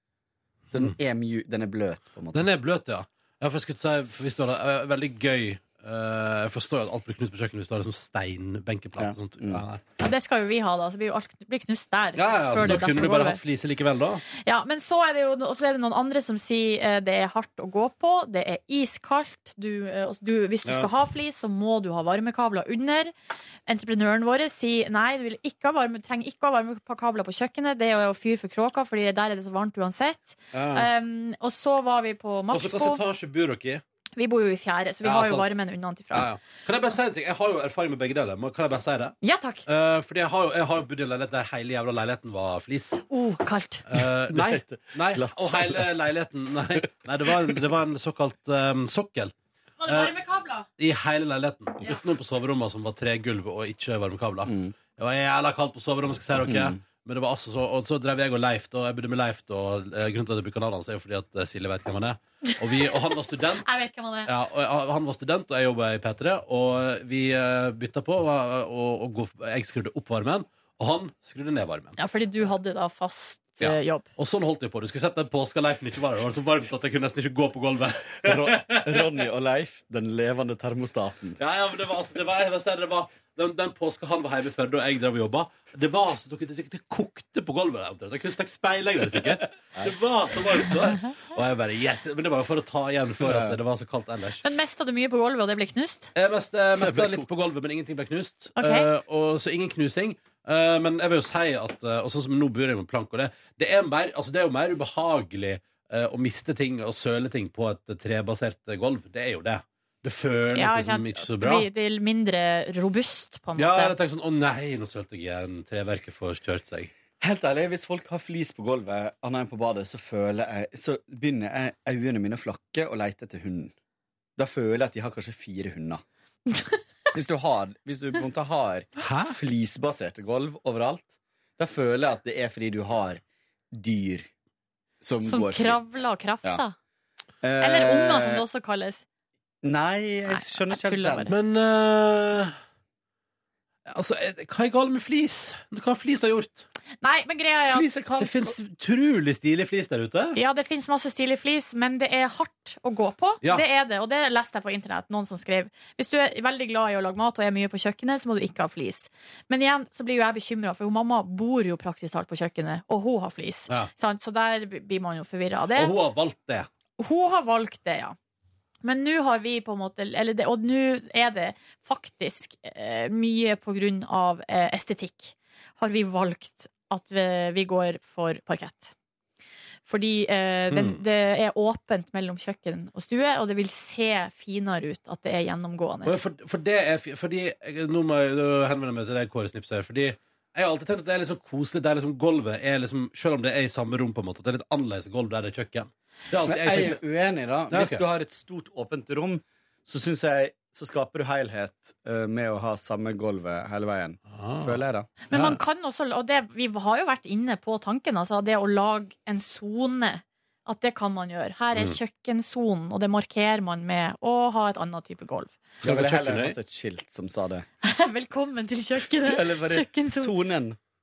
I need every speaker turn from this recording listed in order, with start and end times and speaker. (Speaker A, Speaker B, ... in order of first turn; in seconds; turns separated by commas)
Speaker A: 0.7-2.5, Speaker B: 2.3-9.8, Speaker A: 9.0-9.6, Speaker C: 10.0-13.4, Speaker B: 12.2-14.2, Speaker C: 14.4-23.1, Speaker C: 23.7-33.0, Speaker B: 30.5-30.9, Speaker B: 32.5-33.8, Speaker C: 34.2-36.3, Speaker B: 35.0-35.5, Speaker B: 36.1-39.1, Speaker C: 39.2-39.6, Speaker B: 39.7-43.0, Speaker C: 43.1-43.9, Speaker B: 43.9-49.3, Speaker A: 44.3-45.9, Speaker C: 49.8-50.7, Speaker B: 49.9-50.1, Speaker B: 50.8-72.0, Speaker A: 54.5-54.7, Speaker A: 56.4-56.8, Speaker C: 62.5-62.9, Speaker C: 63.6-64.3, Speaker C: 72.0-74.1, Speaker B: 73.6-79.2, Speaker A: 78.2-81.4, Speaker B: 81.4-94.4, Speaker A: 89.7-90.0, Speaker A: 93.2-93.6, Speaker C: 94.4-96.1, Speaker B: 96.1-111.7, Speaker A: 96.8-97.5, Speaker C: 98.5-98.9, Speaker C: 110.5-113.9, Speaker B: 113.6-116.9, Speaker A: 117.2-123.7, Speaker A: 124.4-126.0, Speaker A: 127.1-134.3, Speaker B: 129.0-129.3, Speaker A: 135.0-136.6, Speaker C: 135.2-136.7, Speaker A: 137.4-138.4, Speaker C: 137.6-139.0, Speaker A: 139.6-141.3, Speaker C: 140.3-141.3, Speaker B: 141.3-142.6, Speaker B: 143.8-146.6, Speaker C: 147.0-147.8, Speaker A: 147.7-148.6, Speaker B: 148.2-150.4, Speaker C: 150.3-165.9, Speaker B: 165.7-166.7, Speaker C: 167.0-168.2, Speaker C: 168.8-178.9, Speaker C: 179.8-186.2, Speaker B: 180.7-181.0, Speaker B: 186.0-197.0, Speaker A: 196.4-205.2, Speaker B: 197.7-198.0, Speaker B: 204.3-205.6, Speaker C: 205.3-215.6, Speaker B: 215.8-216.6, Speaker A: 215.8-217.7, Speaker C: 217.8-220.3, Speaker A: 219.2-220.8